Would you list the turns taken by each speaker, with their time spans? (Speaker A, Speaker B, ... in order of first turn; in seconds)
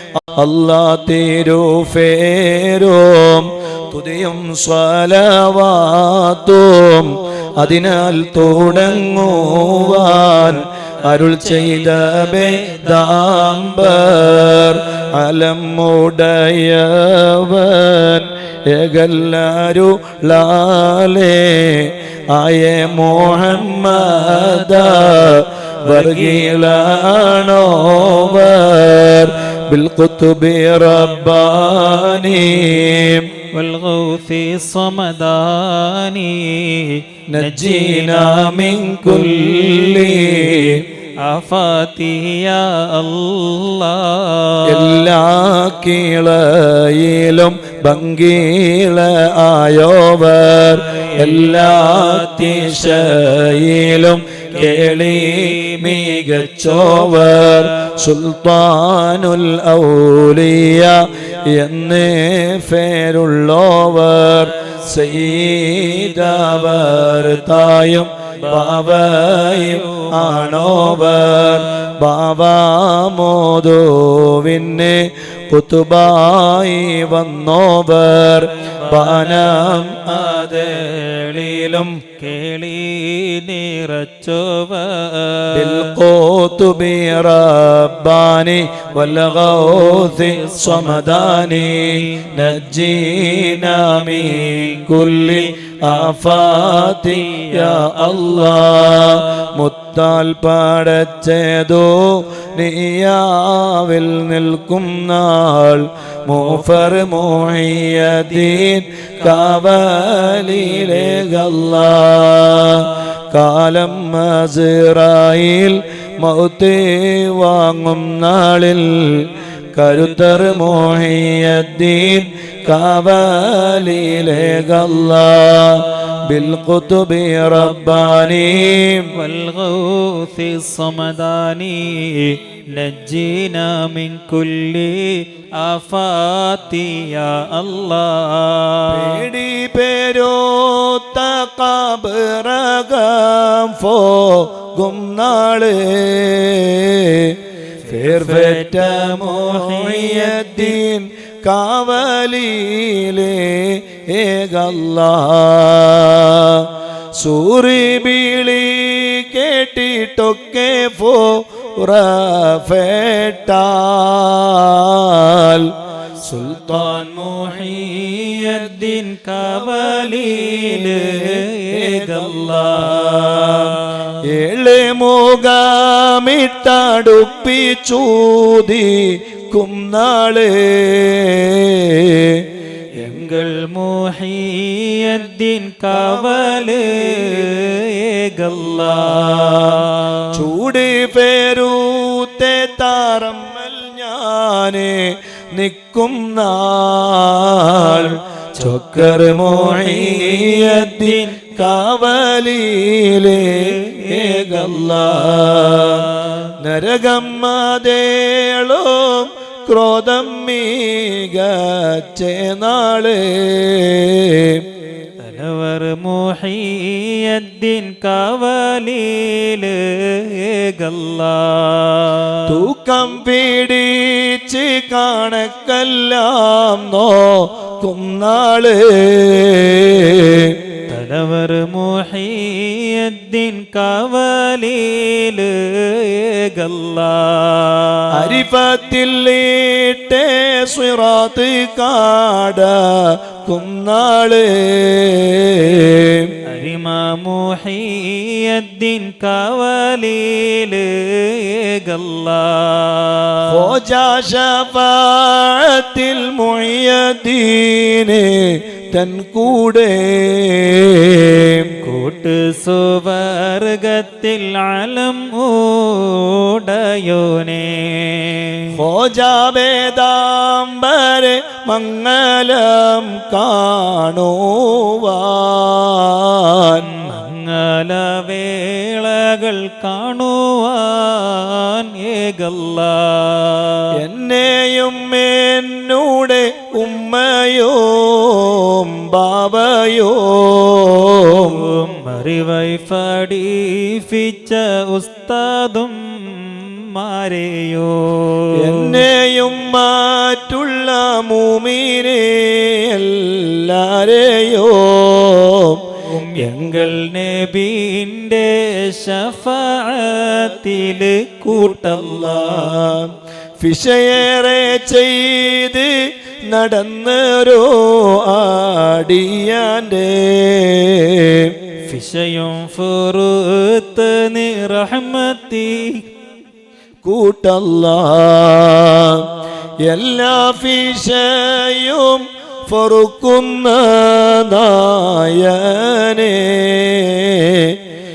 Speaker A: 0.4-33.3, 37.3-40.8, 44.7-80.5, 81.4-81.9, 85.5-129.1, 138.9-165.7, 166.2-166.8, 171.8-173.7, 174.2-182.4, 185.9-186.9, 190.3-214.6, 222.5-230.6, 238.1-246.3, 253.5-261.7, 268.7-276.9, 283.9-291.6, 298.6-306.5, 311.8-321.5, 327.0-329.2, 329.9-337.8
Speaker B: 8.9-14.0, 24.1-25.3, 25.8-28.4, 33.5-45.1, 50.7-53.2, 54.5-57.9, 68.4-71.7, 78.6-86.0, 89.2-92.4, 93.8-99.4, 109.2-109.7, 110.4-111.1, 129.1-139.2, 147.9-150.8, 166.3-174.2, 183.0-190.4, 199.4-201.5, 203.3-206.5, 215.2-222.6, 230.9-238.4, 246.5-253.8, 261.8-268.7, 276.9-283.9, 291.4-299.1, 306.0-312.8, 321.9-326.0